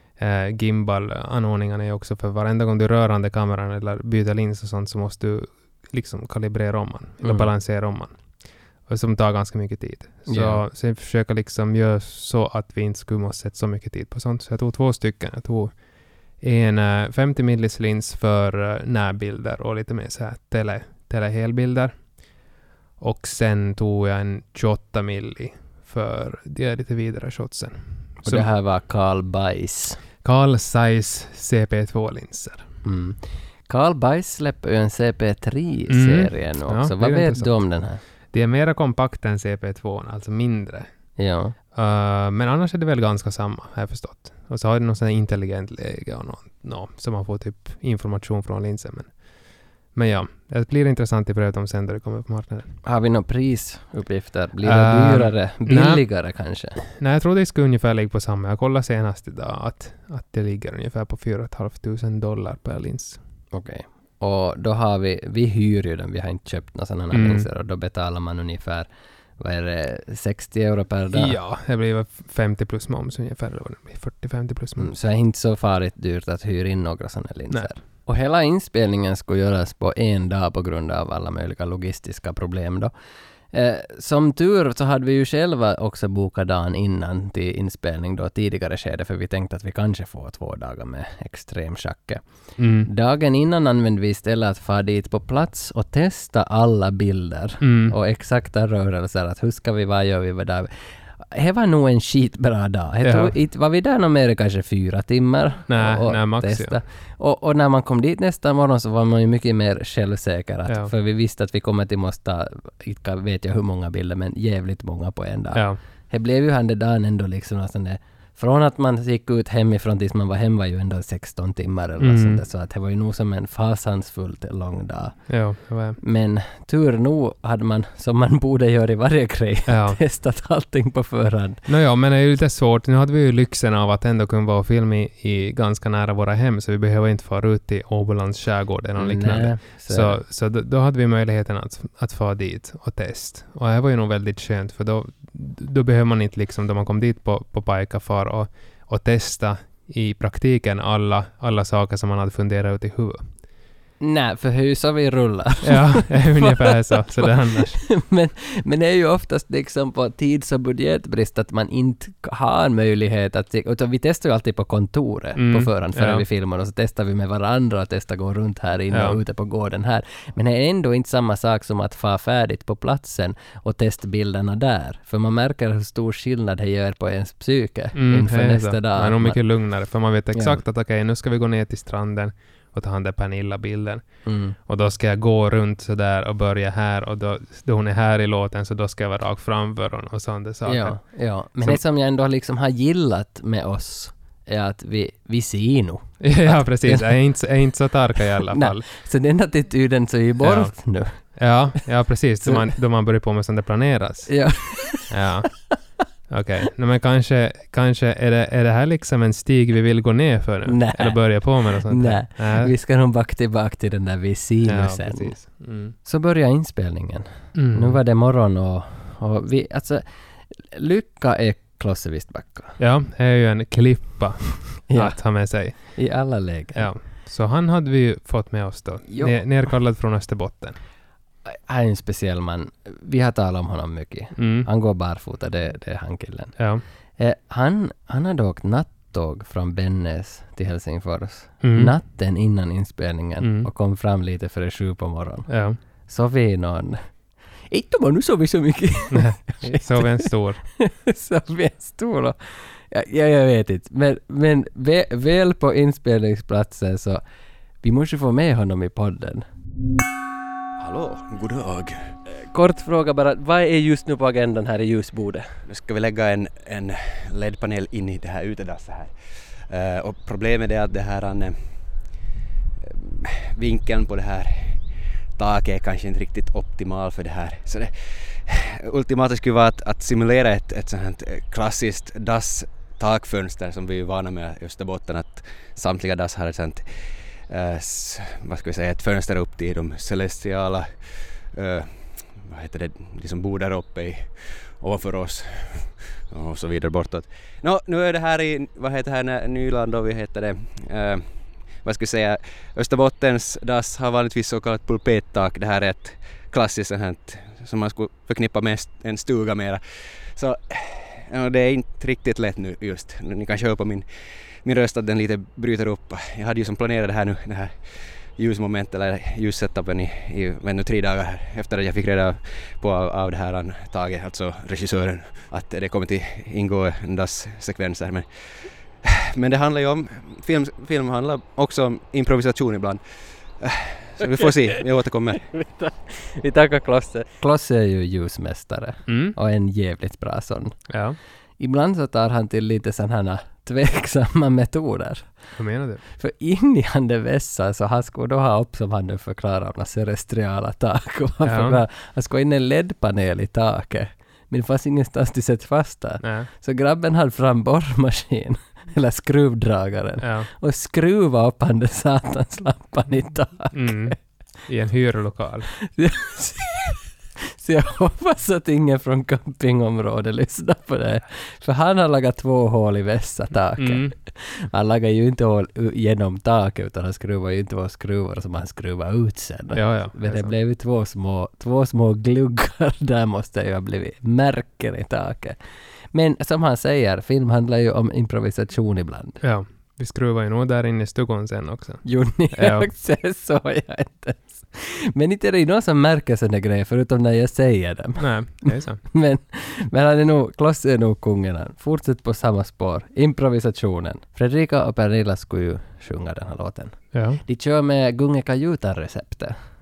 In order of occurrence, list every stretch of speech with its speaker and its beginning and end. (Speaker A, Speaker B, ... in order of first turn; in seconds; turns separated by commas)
Speaker A: 0.2-8.2, Speaker B: 7.2-7.5, Speaker A: 8.9-15.7, Speaker B: 10.3-10.6, Speaker A: 16.4-22.0, Speaker A: 23.0-28.5, Speaker B: 28.2-30.0, Speaker A: 30.2-32.7, Speaker B: 32.9-38.0, Speaker A: 35.9-37.7, Speaker A: 38.3-40.9, Speaker B: 41.2-41.5, Speaker A: 41.7-49.1, Speaker A: 50.0-52.7, Speaker B: 52.8-56.8, Speaker A: 54.6-56.0, Speaker A: 56.8-63.2, Speaker B: 63.5-68.9, Speaker A: 67.1-67.5, Speaker B: 69.4-71.4, Speaker A: 71.1-74.9, Speaker B: 74.8-82.9, Speaker B: 83.5-92.2, Speaker A: 92.6-92.9, Speaker B: 92.8-125.2, Speaker A: 97.6-98.0, Speaker A: 103.0-103.3, Speaker A: 105.7-106.8, Speaker A: 115.5-115.8, Speaker A: 122.0-122.4, Speaker A: 125.3-126.0, Speaker B: 126.0-131.6, Speaker A: 129.7-130.0, Speaker A: 131.7-153.3, Speaker B: 139.0-140.2, Speaker B: 154.0-179.4, Speaker A: 155.6-157.8, Speaker A: 165.4-166.2, Speaker A: 168.9-169.2, Speaker A: 177.9-191.0, Speaker B: 180.3-180.6, Speaker B: 184.2-184.6, Speaker B: 190.7-197.1, Speaker A: 196.2-198.9, Speaker B: 198.4-201.2, Speaker A: 200.4-204.4, Speaker B: 204.3-205.1, Speaker A: 205.1-205.5, Speaker A: 206.3-212.7, Speaker B: 210.7-215.4, Speaker A: 214.7-216.0, Speaker B: 216.0-220.0, Speaker A: 217.6-218.0, Speaker B: 220.6-222.8, Speaker A: 222.8-226.0, Speaker B: 224.9-226.9, Speaker A: 226.8-230.8, Speaker B: 229.1-229.4, Speaker B: 231.5-236.6, Speaker A: 234.4-234.7, Speaker A: 236.6-236.8, Speaker B: 237.2-245.5, Speaker A: 241.6-241.9, Speaker A: 243.4-243.7, Speaker A: 245.5-245.8, Speaker B: 246.1-247.0, Speaker B: 247.7-257.2, Speaker A: 249.1-250.6, Speaker B: 257.8-259.4, Speaker C: 260.8-262.2, Speaker B: 262.5-265.5, Speaker C: 265.7-271.8, Speaker C: 272.8-314.1, Speaker C: 314.6-335.5, Speaker B: 335.4-340.8, Speaker A: 339.1-339.4, Speaker A: 340.9-341.2, Speaker B: 341.6-345.4, Speaker A: 345.6-346.0, Speaker B: 346.2-364.2, Speaker A: 351.4-351.8, Speaker A: 356.2-356.5, Speaker A: 360.2-360.5, Speaker A: 363.7-365.7, Speaker B: 365.8-385.6, Speaker A: 373.8-374.1, Speaker A: 379.7-380.6, Speaker B: 386.1-389.4, Speaker A: 389.4-392.9, Speaker B: 392.0-409.6, Speaker A: 398.2-399.0, Speaker A: 407.1-407.4